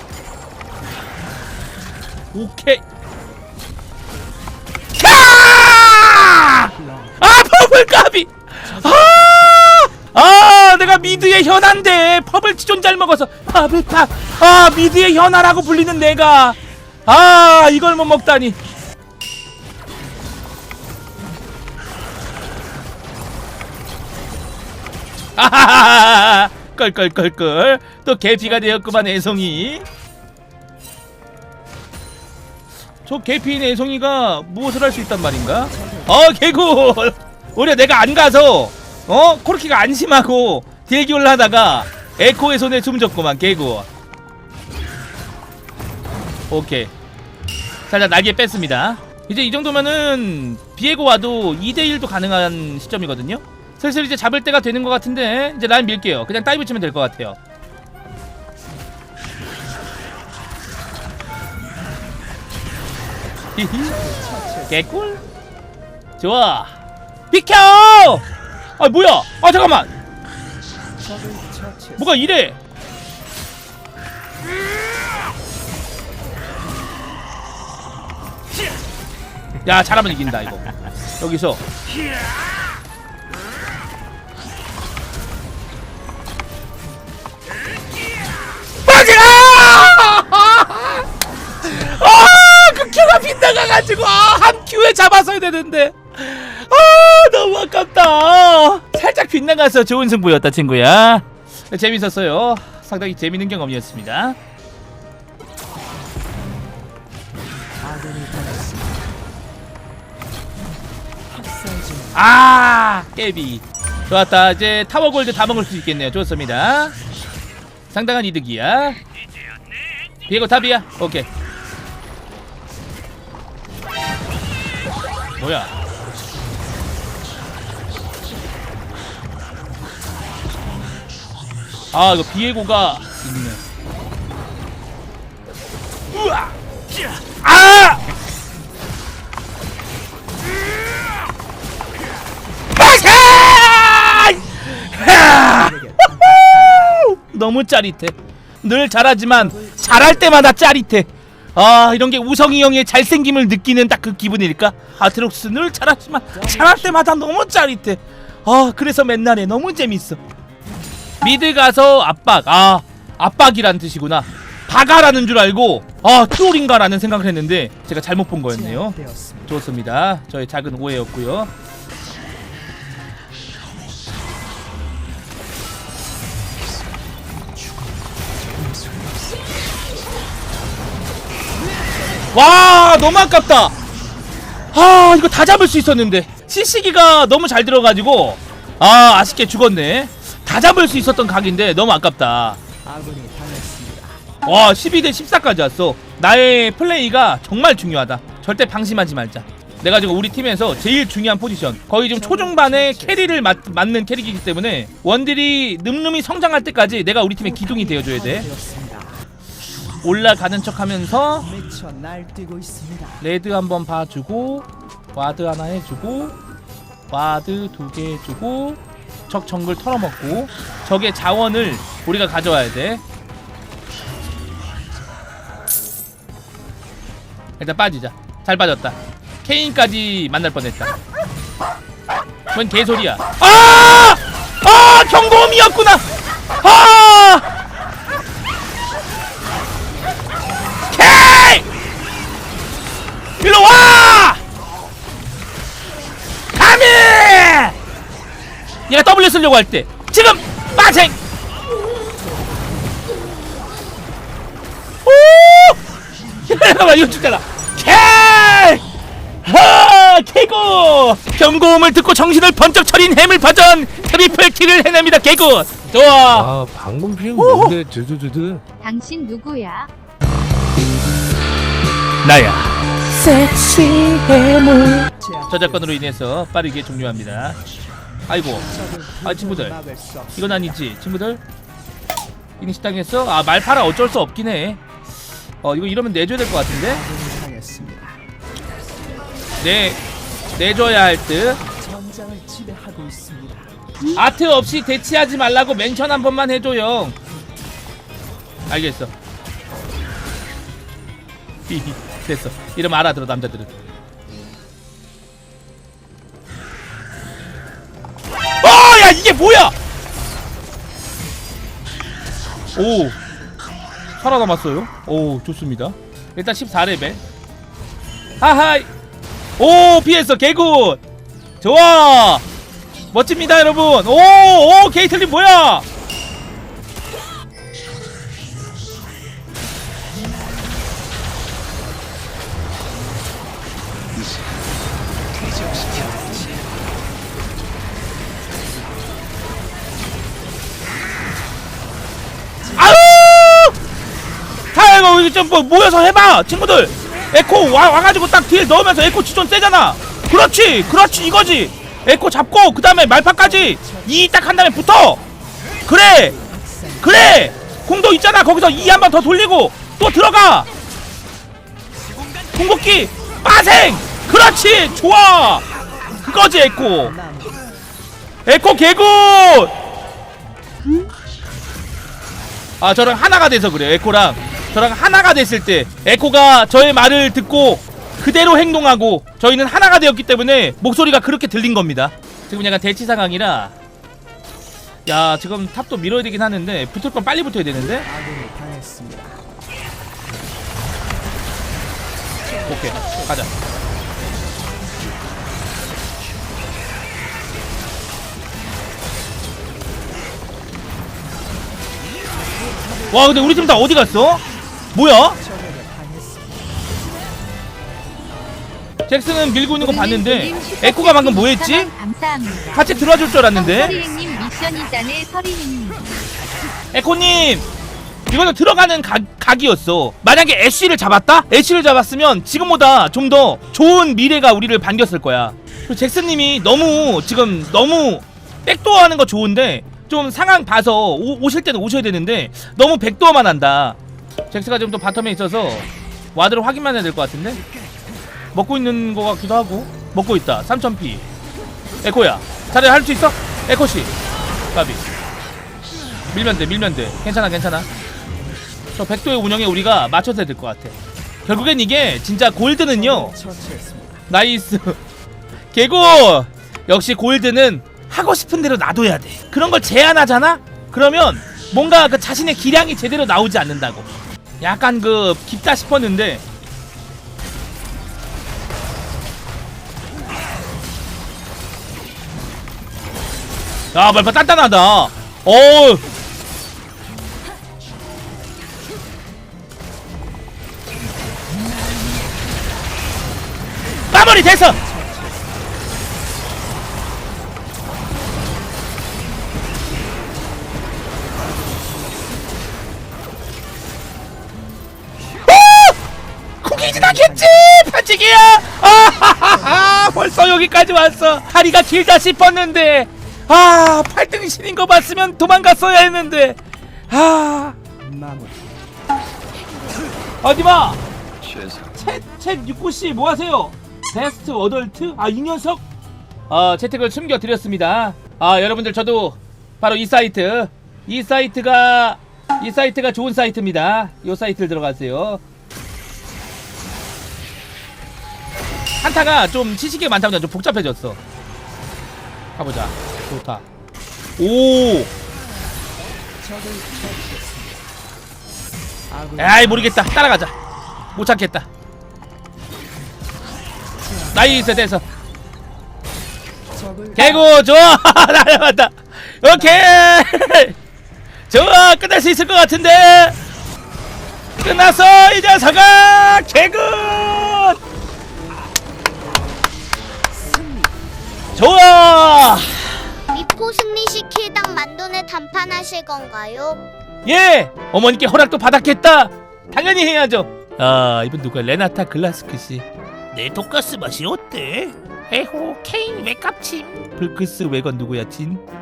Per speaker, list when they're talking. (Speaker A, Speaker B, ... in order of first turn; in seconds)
Speaker A: 2.3-2.8, 5.0-18.6, 25.4-29.9, 33.0-43.9, 46.5-46.9, 47.9-57.4, 63.5-64.0, 64.7-65.2, 66.2-66.7, 67.3-68.2, 68.8-69.9, 72.0-72.6, 79.6-81.6, 88.8-91.0, 91.6-104.3, 112.1-116.9, 117.9-119.0, 120.3-121.3, 125.4-125.7, 131.9-133.6, 136.1-136.5, 137.0-138.0, 142.8-160.2, 161.2-168.9, 169.5-171.5, 182.3-183.7, 184.7-192.6, 194.4-208.5, 210.0-211.5, 213.2-216.3, 217.1-223.0, 227.6-230.9, 232.5-236.0, 236.6-237.4, 240.9-241.6, 243.4-244.4, 246.5-247.7, 248.9-251.2, 255.1-255.8, 256.4-258.8, 259.4-266.5, 267.4-267.8, 272.2-277.6, 278.3-278.7, 279.2-279.7, 280.3-281.4, 282.6-284.8, 285.6-287.0, 289.6-290.0, 290.5-291.6, 294.1-297.1, 298.7-299.1, 301.7-303.7, 308.6-309.7, 312.8-313.1, 314.2-317.2, 318.4-318.9, 319.6-321.0, 321.6-322.4, 323.1-325.8, 342.7-343.7, 344.7-355.2, 355.9-356.3, 357.0-360.7, 362.5-365.6, 366.2-367.1, 368.4-369.7, 372.8-383.7, 385.1-388.1, 392.7-393.5, 403.1-404.4, 404.9-405.4, 409.1-411.9, 412.7-413.9, 416.9-417.6, 418.3-434.0, 434.5-437.6, 438.5-441.2, 442.0-444.1, 444.7-445.0, 446.3-447.9, 448.9-453.3, 454.3-455.0, 455.7-464.1, 464.6-466.4, 473.9-476.0, 484.1-484.8, 495.5-495.9, 496.6-507.8, 510.4-511.0, 511.9-515.8, 516.5-525.4, 529.0-531.2, 532.6-533.6, 534.4-535.1, 539.4-540.5, 541.1-541.6, 544.3-545.0, 547.1-550.7, 551.5-553.4, 554.6-557.8, 561.5-563.0, 567.2-578.6
Speaker B: 6.7-7.3, 8.6-9.7, 28.4-29.6, 35.7-36.2, 63.8-64.8, 71.0-72.1, 107.8-109.1, 111.3-112.2, 144.9-147.0, 149.4-150.4, 156.3-157.0, 168.5-169.5, 178.7-179.1, 192.8-194.2, 202.1-203.5, 207.4-209.2, 211.4-213.2, 252.3-253.0, 275.1-275.9, 278.6-280.8, 286.8-288.2, 291.7-293.7, 335.6-336.2, 342.7-342.9, 351.1-351.6, 353.4-354.2, 356.1-357.4, 367.0-367.7, 388.0-389.4, 392.4-393.5, 402.6-404.3, 405.3-406.7, 413.6-414.0, 452.9-454.2, 484.8-485.5, 491.4-492.5, 496.7-497.7, 499.4-500.1, 508.0-508.6, 536.4-537.9, 539.1-540.0, 544.0-544.7, 546.7-547.4, 549.5-549.9, 560.4-560.9
Speaker C: 266.3-268.6
Speaker D: 268.8-269.9, 409.8-416.1
Speaker E: 563.3-566.8